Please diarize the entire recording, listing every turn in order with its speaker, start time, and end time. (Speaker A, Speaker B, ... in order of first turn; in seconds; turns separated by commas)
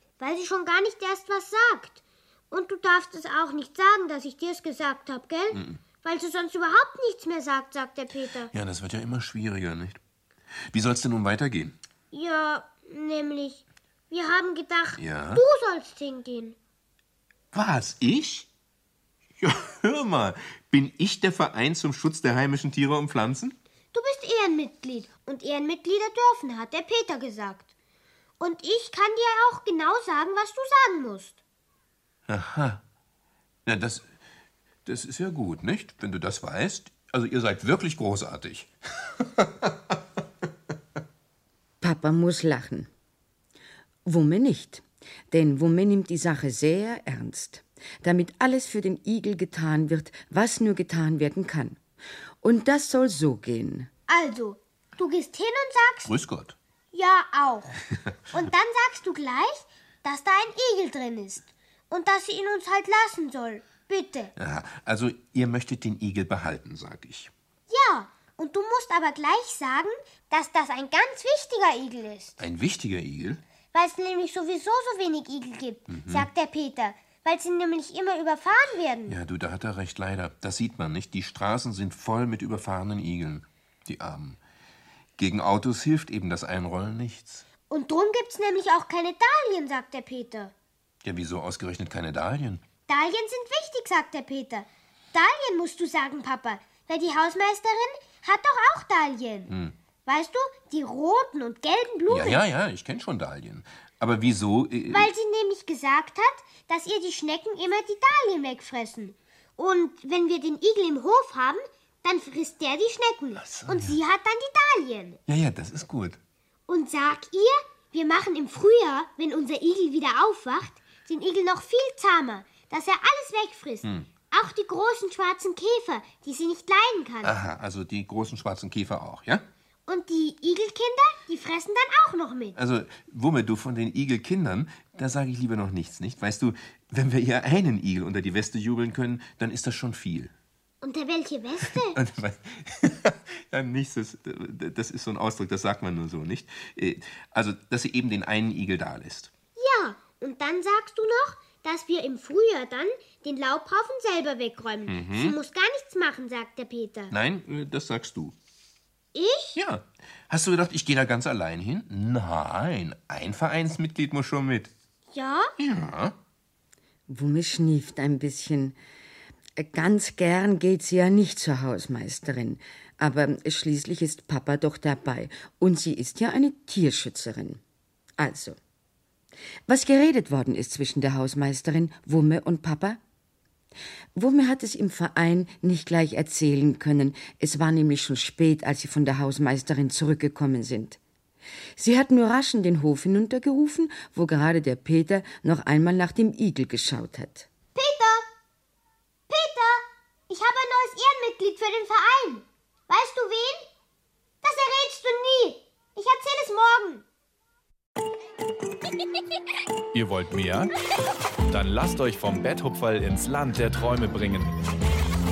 Speaker A: 0.2-8.5, Speaker B: 5.5-5.8, Speaker B: 8.5-10.0, Speaker B: 10.7-11.8, Speaker A: 12.1-16.6, Speaker B: 15.0-15.4, Speaker B: 17.5-18.5, Speaker B: 19.4-23.6, Speaker A: 23.9-27.7, Speaker A: 28.4-31.4, Speaker B: 32.3-32.8, Speaker B: 33.6-34.1, Speaker B: 34.9-40.0, Speaker C: 41.8-42.9, Speaker C: 44.0-51.8, Speaker C: 52.4-53.9, Speaker A: 54.1-56.1, Speaker B: 56.1-56.6, Speaker A: 56.9-64.3, Speaker B: 64.4-67.3, Speaker A: 67.7-72.4, Speaker B: 72.4-73.4, Speaker A: 73.7-79.2, Speaker B: 75.9-76.3, Speaker B: 79.1-84.4, Speaker B: 85.2-87.5, Speaker A: 87.7-90.5, Speaker B: 91.0-92.6, Speaker A: 92.9-99.5, Speaker B: 99.5-99.8, Speaker A: 100.0-102.4, Speaker B: 102.1-105.1, Speaker A: 104.9-115.2, Speaker B: 113.4-114.0, Speaker B: 115.3-116.2, Speaker A: 116.7-127.3, Speaker B: 127.2-129.4, Speaker A: 129.9-132.6, Speaker B: 132.6-140.3, Speaker A: 140.8-142.0, Speaker B: 141.7-149.3, Speaker A: 149.6-157.1, Speaker B: 154.9-155.4, Speaker B: 157.1-158.4, Speaker A: 159.1-159.6, Speaker B: 159.6-164.7, Speaker A: 165.1-165.5, Speaker B: 165.6-166.1, Speaker C: 167.1-168.8, Speaker C: 169.6-177.6, Speaker C: 178.2-178.6, Speaker C: 179.7-183.0, Speaker C: 184.1-191.0, Speaker C: 191.8-197.5, Speaker A: 197.7-198.2, Speaker A: 199.3-203.7, Speaker A: 204.4-207.0, Speaker D: 209.9-210.7, Speaker D: 211.5-214.5